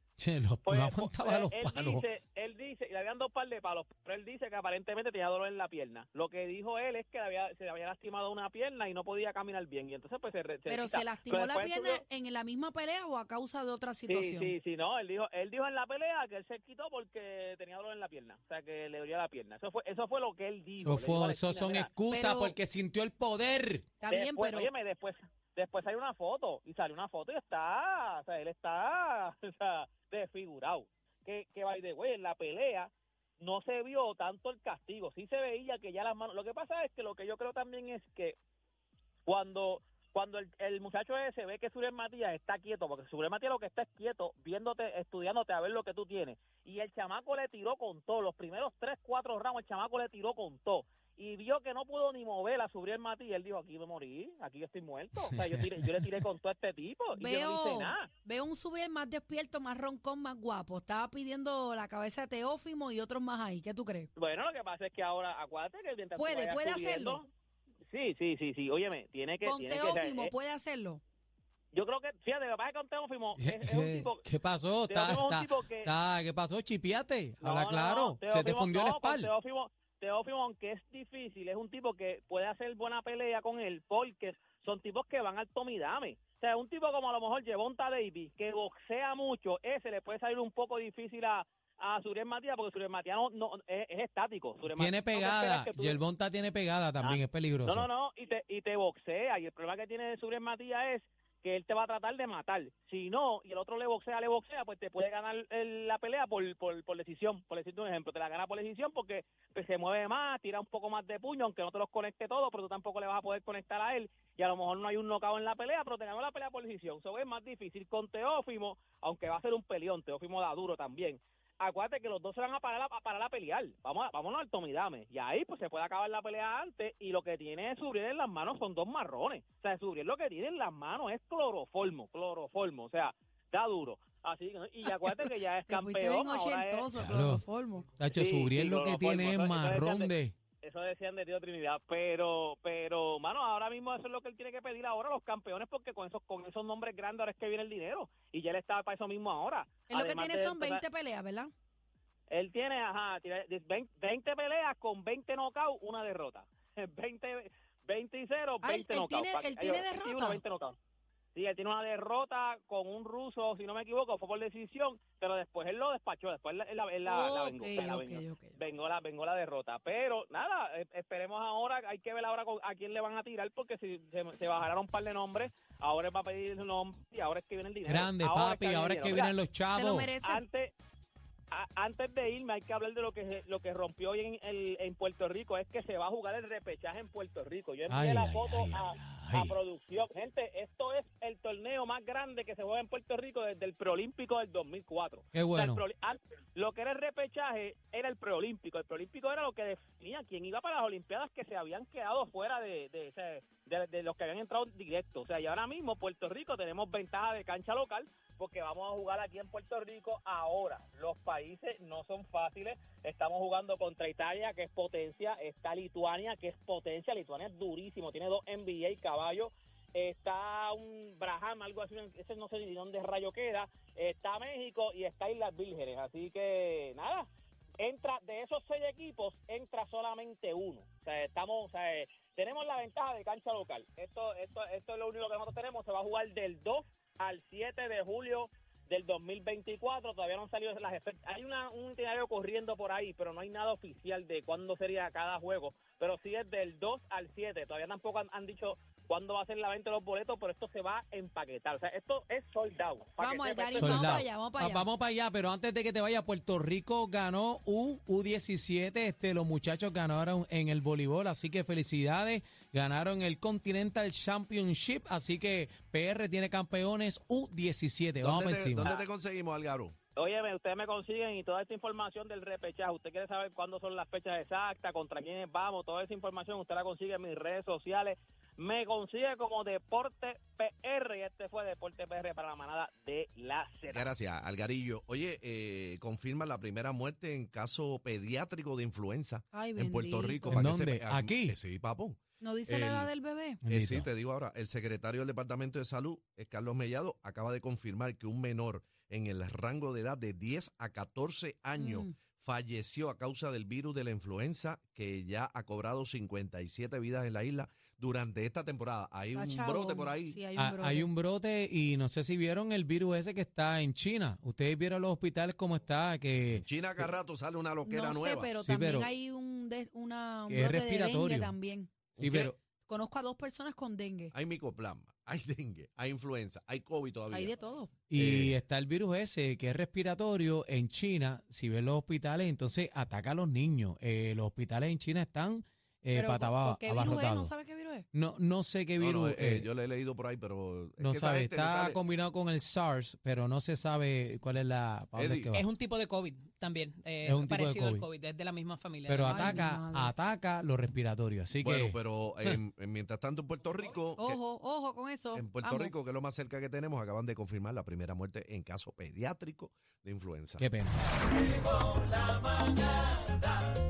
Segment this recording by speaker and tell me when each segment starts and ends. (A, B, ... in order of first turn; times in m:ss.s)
0:00.2-0:02.0 A
0:00.6-0:12.0 B
0:10.7-0:14.5 C
0:14.1-0:21.9 B
0:20.8-0:23.9 A
0:22.1-0:22.6 C
0:24.0-0:24.7 C
0:24.1-0:38.4 B
0:39.3-0:58.1 B
0:55.2-0:56.2 A
0:57.2-1:04.1 C
1:04.2-1:07.3 B
1:06.2-1:07.2 C
1:07.9-1:10.3 B
1:09.4-1:11.0 C
1:11.7-1:14.2 B
1:13.4-1:19.3 A
1:14.9-1:15.9 B
1:17.4-1:36.0 B
1:34.6-1:37.9 A
1:37.0-2:17.1 B
2:15.7-2:17.9 C
2:16.9-2:17.4 A
2:18.0-2:20.4 A
2:18.1-2:20.1 B
2:20.6-2:30.8 B
2:29.9-2:31.5 C
2:32.3-2:40.8 B
2:38.6-2:40.4 C
2:41.4-2:59.4 B
2:47.1-2:48.6 C
2:57.9-3:00.1 A
2:59.8-3:00.4 C
3:00.2-3:00.7 B
3:01.5-3:47.3 B
3:07.9-3:09.6 A
3:15.3-3:15.8 A
3:47.8-4:14.2 B
4:13.2-4:14.9 C
4:13.8-4:28.9 A
4:28.2-4:30.0 D
4:30.2-4:44.1 B
4:43.9-4:53.1 D
4:49.5-4:50.6 C
4:50.5-4:51.6 A
4:52.4-4:53.6 C
4:53.6-4:54.1 A
4:53.7-5:10.4 D
5:01.8-5:02.1 C
5:09.3-5:11.1 C
5:10.6-5:17.0 A
5:16.6-5:18.5 D
5:17.8-5:21.9 C
5:18.6-5:19.1 A
5:20.5-5:21.6 A
5:22.2-5:22.6 A
5:22.2-5:22.5 D
5:22.8-5:24.3 C
5:24.3-5:27.5 D
5:27.3-5:27.9 C
5:28.1-5:37.5 A
5:28.1-5:28.6 D
5:36.1-5:38.1 C
5:38.1-5:39.7 A
5:39.0-5:42.0 D
5:41.0-5:45.7 A
5:45.2-5:45.6 D
5:45.5-5:49.5 E
5:47.2-5:48.1 A
5:49.1-5:52.6 A
5:49.3-5:50.1 C
5:51.6-5:54.4 D
5:54.2-5:55.9 C
5:55.3-6:00.7 D
6:00.6-6:01.2 A
6:01.8-6:03.1 A